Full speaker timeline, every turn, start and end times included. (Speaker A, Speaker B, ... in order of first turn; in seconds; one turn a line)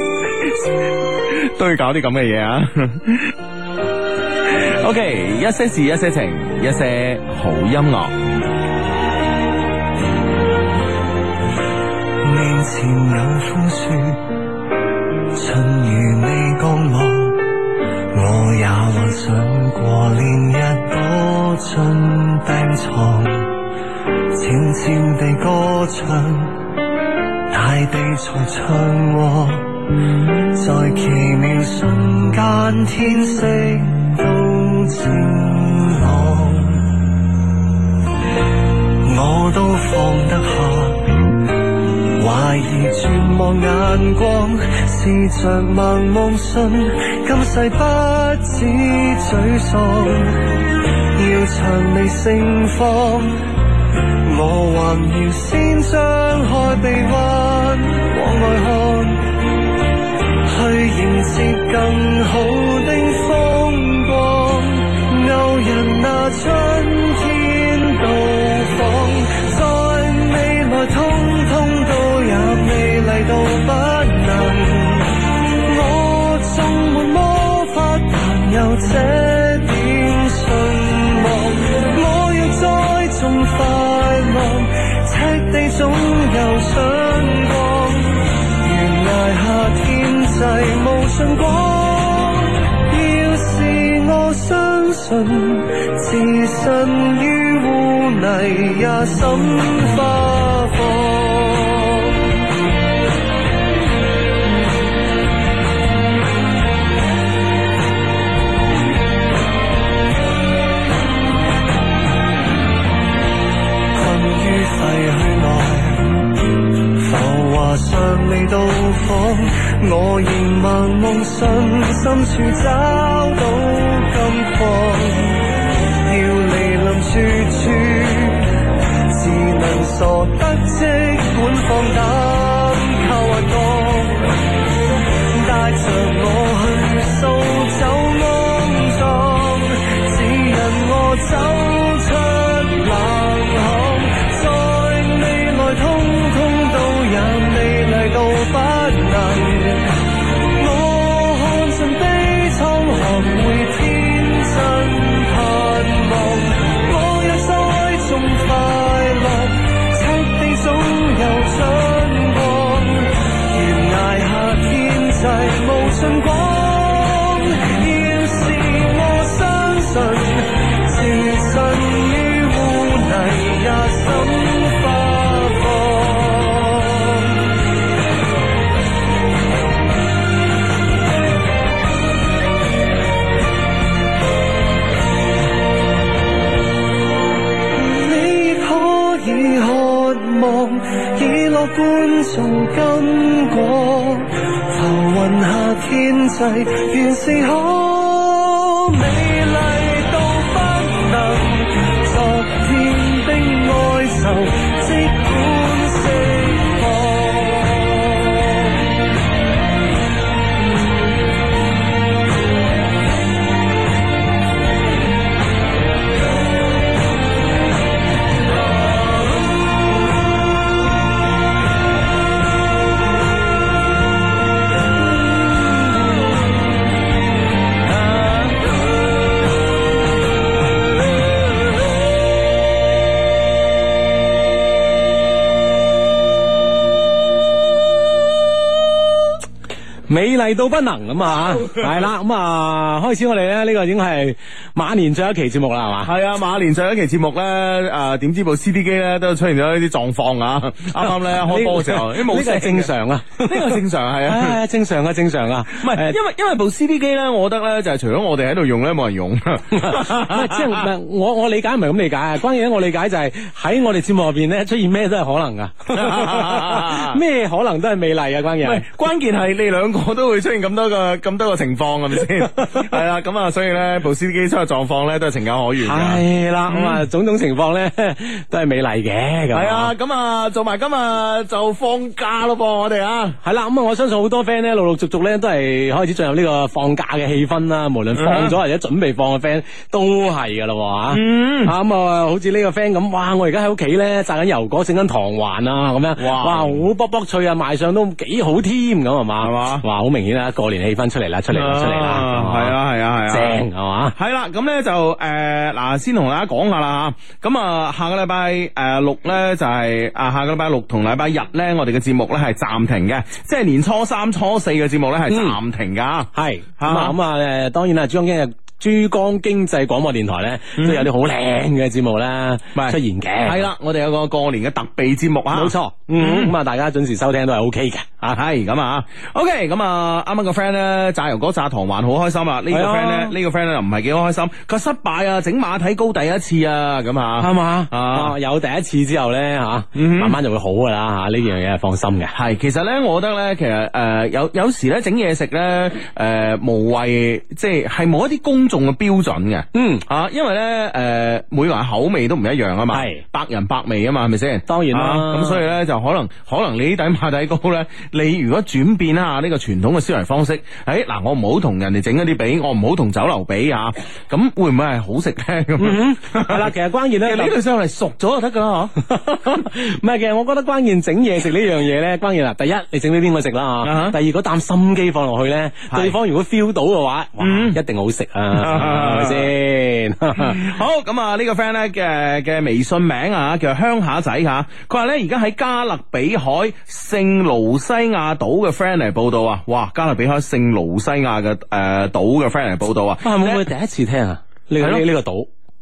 Speaker A: 0.4-0.7
Speaker A: 1.2-3.3
Speaker A: 4.5-8.4
Speaker B: 12.2-14.3
Speaker B: 15.3-17.5
Speaker B: 18.1-23.6
Speaker B: 24.3-26.6
Speaker B: 27.5-29.9
Speaker B: 30.5-37.2
Speaker B: 39.0-41.4
Speaker B: 42.2-50.6
Speaker B: 51.1-53.4
Speaker B: 54.2-59.4
Speaker B: 60.5-102.2
Speaker B: 113.9-125.5
Speaker B: 126.0-128.6
Speaker B: 129.1-134.4
Speaker B: 135.3-149.9
Speaker B: 150.6-177.4
Speaker B: 187.8-208.7
Speaker C: 240.1-246.1
Speaker A: 246.0-254.6
Speaker C: 251.5-256.2
Speaker A: 255.7-260.9
Speaker C: 259.7-268.9
Speaker A: 265.9-267.2
Speaker A: 268.6-277.0
Speaker C: 275.8-279.9
Speaker A: 279.5-283.4
Speaker C: 283.4-302.8
Speaker A: 288.1-288.6
Speaker A: 291.1-291.7
Speaker A: 296.2-296.8
Speaker A: 299.4-299.9
Speaker A: 301.5-303.6
Speaker C: 303.3-304.2
Speaker A: 304.1-317.2
Speaker C: 315.3-315.6
Speaker C: 316.3-323.7
Speaker A: 320.8-321.1
Speaker A: 322.7-326.5
Speaker C: 325.5-328.2
Speaker A: 328.2-338.4
Speaker C: 332.7-333.4
Speaker C: 337.4-342.3
Speaker A: 339.9-340.4
Speaker A: 342.3-366.7
Speaker C: 349.7-350.0
Speaker C: 352.9-353.2
Speaker C: 354.7-355.6
Speaker C: 365.8-367.6
Speaker A: 367.2-369.0
Speaker C: 369.1-380.6
Speaker A: 373.8-374.2
Speaker A: 375.9-376.2
Speaker A: 377.4-377.8
Speaker A: 378.5-379.5
Speaker A: 380.4-393.7
Speaker C: 393.2-395.5
Speaker A: 394.8-395.1